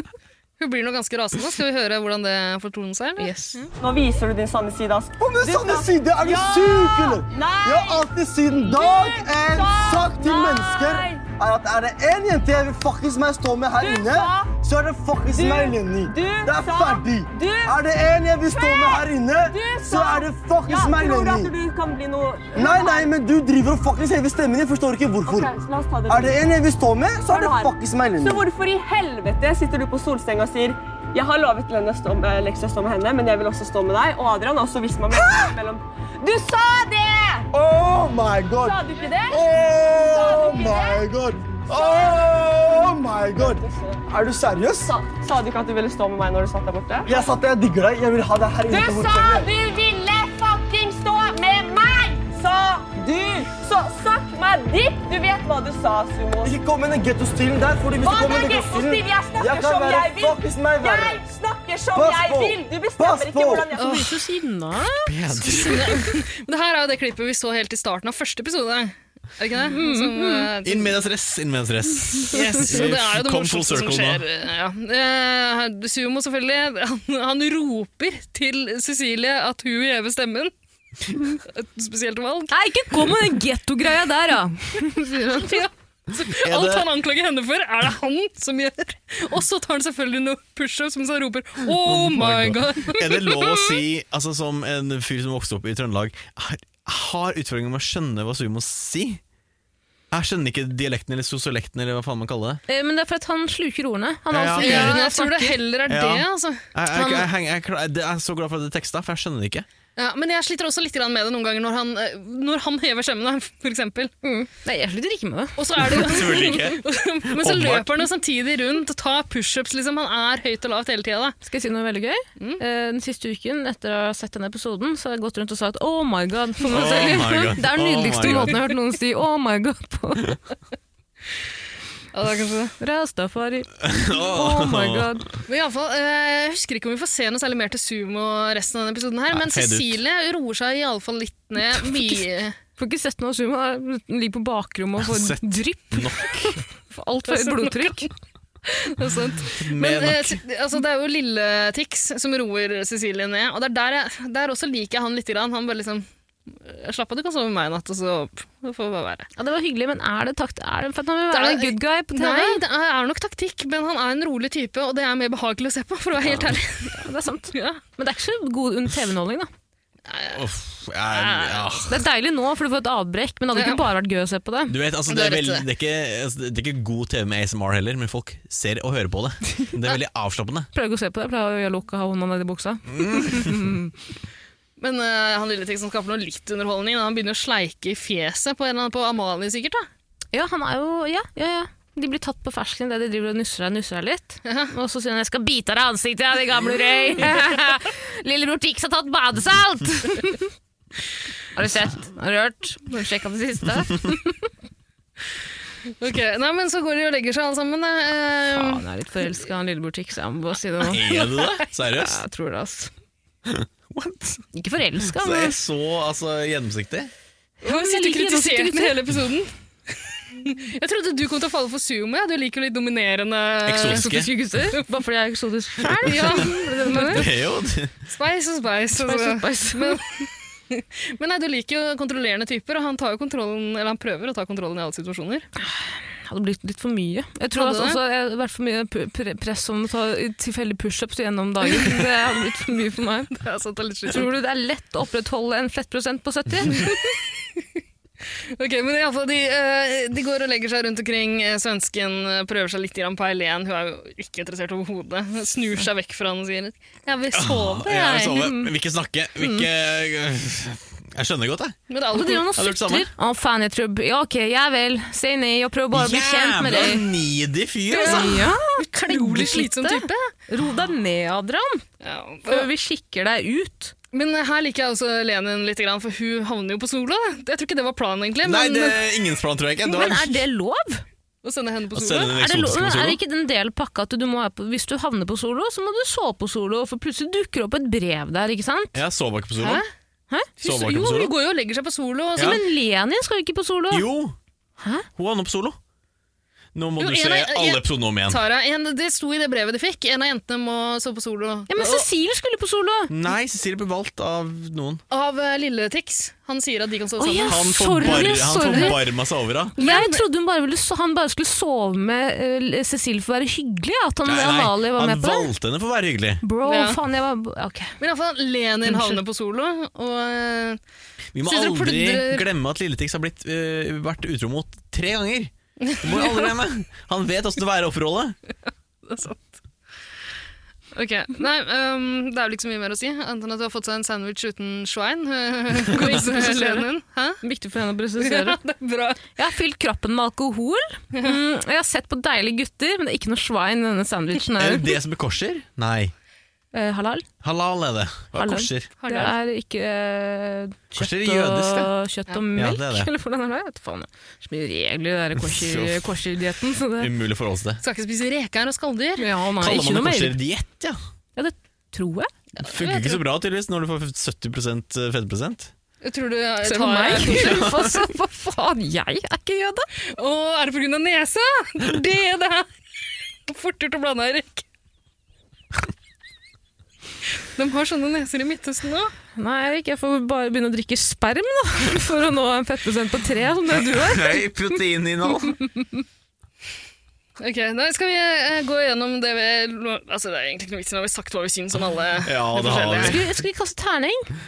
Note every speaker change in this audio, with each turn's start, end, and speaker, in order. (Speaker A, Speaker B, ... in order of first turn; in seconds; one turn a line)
Speaker A: 0.6-3.4
Speaker B: 3.2-3.7
Speaker C: 3.8-11.2
Speaker D: 5.2-21.6
Speaker C: 13.8-14.6
Speaker C: 15.3-17.8
Speaker C: 18.5-23.1
Speaker D: 22.5-25.5
Speaker C: 25.2-26.4
Speaker D: 26.1-28.5
Speaker C: 27.3-37.5
Speaker D: 35.1-35.6
Speaker D: 37.5-45.0
Speaker C: 38.6-39.4
Speaker C: 40.1-41.0
Speaker C: 41.7-42.4
Speaker C: 43.4-44.0
Speaker C: 44.8-47.3
Speaker D: 47.1-49.5
Speaker C: 48.7-56.6
Speaker D: 56.4-61.2
Speaker C: 58.0-64.1
Speaker D: 61.9-63.7
Speaker B: 63.8-65.5
Speaker A: 63.8-64.2
Speaker E: 65.0-66.0
Speaker A: 65.4-71.0
Speaker B: 69.7-70.5
Speaker E: 70.6-74.2
Speaker A: 72.3-80.5
Speaker A: 81.5-82.5
Speaker B: 82.5-85.7
Speaker A: 85.4-93.8
Speaker E: 86.4-86.9
Speaker E: 91.8-99.2
Speaker E: 100.1-102.6
Speaker B: 102.7-105.6
Speaker E: 104.3-105.0
Speaker A: 104.5-107.3
Speaker E: 105.9-109.7
Speaker A: 110.0-114.1
Speaker B: 114.2-116.5
Speaker A: 115.6-121.4
Speaker E: 115.8-117.9
Speaker B: 121.4-130.4
Speaker E: 126.7-128.6
Speaker A: 132.1-132.8
Speaker B: 132.8-135.3
Speaker E: 133.8-135.1
Speaker A: 135.5-142.6
Speaker E: 139.3-140.0
Speaker B: 141.7-142.2
Speaker B: 142.8-146.3
Speaker E: 145.0-146.6
Speaker B: 146.9-148.1
Speaker A: 147.3-148.1
Speaker A: 148.9-159.3
Speaker E: 149.6-150.4
Speaker B: 159.4-162.6
Speaker A: 161.3-167.8
Speaker B: 166.2-169.5
Speaker A: 170.1-170.5
Speaker E: 170.3-172.0
Speaker A: 171.1-171.9
Speaker B: 171.9-174.8
Speaker A: 173.6-173.9
Speaker E: 174.7-180.7
Speaker A: 175.1-175.7
Speaker B: 180.7-183.9
Speaker E: 182.9-183.5
Speaker A: 184.8-189.9
Speaker B: 190.3-200.5
Speaker A: 194.5-194.7
Speaker B: 201.6-204.3
Speaker A: 206.0-208.8
Speaker B: 208.5-211.1
Speaker E: 210.8-212.2
Speaker A: 211.0-211.5
Speaker B: 212.0-212.9
Speaker E: 213.5-214.4
Speaker B: 214.5-215.6
Speaker E: 215.0-217.1
Speaker B: 217.6-219.0
Speaker A: 217.6-224.8
Speaker E: 223.7-224.3
Speaker B: 223.9-227.2
Speaker E: 226.0-226.5
Speaker A: 226.1-227.3
Speaker E: 227.0-227.9
Speaker A: 228.1-235.5
Speaker B: 229.0-230.0
Speaker B: 235.6-243.3
Speaker A: 237.5-238.0
Speaker A: 243.3-244.3
Speaker B: 244.1-247.2
Speaker A: 246.8-247.7
Speaker A: 248.5-258.5
Speaker E: 257.3-261.8
Speaker B: 258.4-258.7
Speaker B: 259.4-259.7
Speaker A: 261.9-262.5
Speaker B: 262.1-267.1
Speaker E: 262.5-263.1
Speaker E: 265.9-268.4
Speaker A: 267.9-270.3
Speaker B: 267.9-271.8
Speaker A: 272.0-272.7
Speaker B: 272.5-273.9
Speaker A: 274.1-279.2
Speaker E: 278.4-280.4
Speaker B: 279.9-281.0
Speaker A: 281.4-282.4
Speaker E: 281.9-283.2
Speaker B: 282.4-289.0
Speaker E: 288.9-289.8
Speaker A: 290.6-292.6
Speaker E: 290.6-291.3
Speaker B: 292.4-294.1
Speaker E: 293.9-294.4
Speaker B: 294.8-295.1
Speaker E: 295.2-295.8
Speaker E: 296.8-298.4
Speaker A: 297.0-302.1
Speaker B: 301.7-303.1
Speaker E: 303.1-305.0
Speaker A: 305.1-309.0
Speaker B: 307.2-309.0
Speaker E: 307.4-309.7
Speaker A: 309.8-310.2
Speaker B: 309.8-315.5
Speaker E: 314.2-316.4
Speaker B: 316.4-317.9
Speaker A: 316.6-317.0
Speaker A: 318.0-320.8
Speaker B: 318.9-319.2
Speaker E: 321.3-328.4
Speaker A: 321.4-322.5
Speaker A: 325.8-326.6
Speaker A: 329.1-329.4
Speaker A: 330.9-337.4
Speaker B: 336.0-336.9
Speaker B: 337.4-338.6
Speaker A: 338.2-339.2
Speaker B: 339.4-344.9
Speaker E: 344.6-346.1
Speaker B: 346.7-347.3
Speaker E: 347.4-348.9
Speaker B: 348.4-357.1
Speaker A: 349.0-349.4
Speaker E: 351.0-351.9
Speaker E: 352.6-353.1
Speaker E: 355.4-356.1
Speaker E: 357.0-357.8
Speaker A: 357.8-359.3
Speaker B: 359.2-360.4
Speaker E: 359.6-361.0
Speaker B: 361.4-362.3
Speaker A: 362.6-363.2
Speaker E: 362.6-365.7
Speaker A: 366.0-367.9
Speaker B: 366.6-369.9
Speaker A: 370.1-372.7
Speaker A: 373.5-374.6
Speaker A: 377.6-379.1
Speaker B: 379.4-384.4
Speaker E: 383.9-385.6
Speaker A: 387.4-393.2
Speaker E: 392.2-393.4
Speaker B: 393.0-394.3